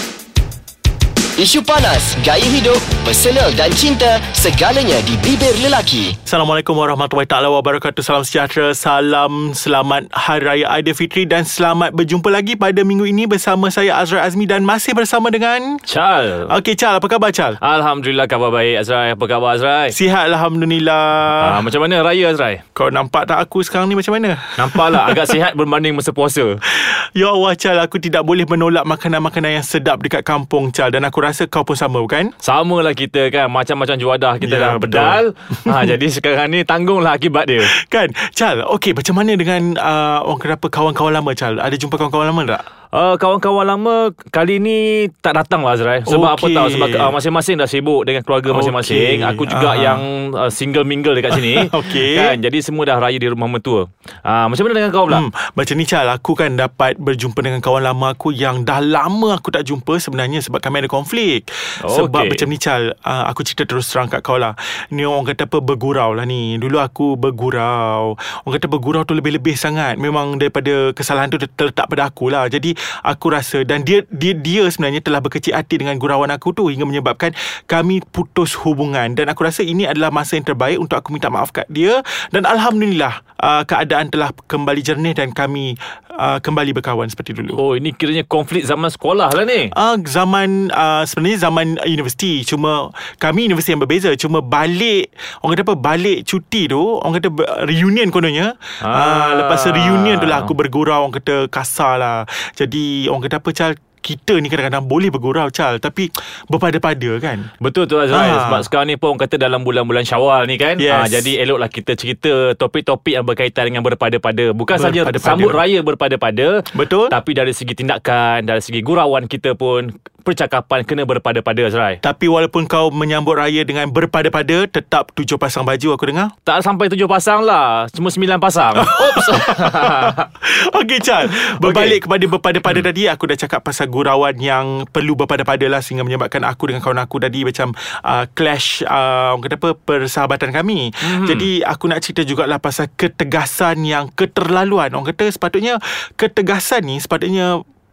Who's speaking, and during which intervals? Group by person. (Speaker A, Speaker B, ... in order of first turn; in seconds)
Speaker A: 1.4-6.2
Speaker B: 6.3-15.8, 16.5-17.6, 19.9-21.6, 22.8-25.4, 26.7-32.3, 34.4-36.0, 37.6-42.7, 46.1-47.1, 48.5-50.0, 51.3-52.4, 55.1-87.6, 89.7-107.5, 108.1-108.7, 110.8-111.3, 114.8-115.6, 116.7-117.2, 122.0-126.3, 128.8-147.6
Speaker C: 15.9-16.5, 17.6-20.0, 21.4-22.6, 24.6-26.6, 32.4-37.7, 42.9-55.2, 61.8-62.5, 87.5-89.7, 98.8-100.5, 107.6-122.0, 126.5-130.3, 131.3-132.0, 141.0-141.5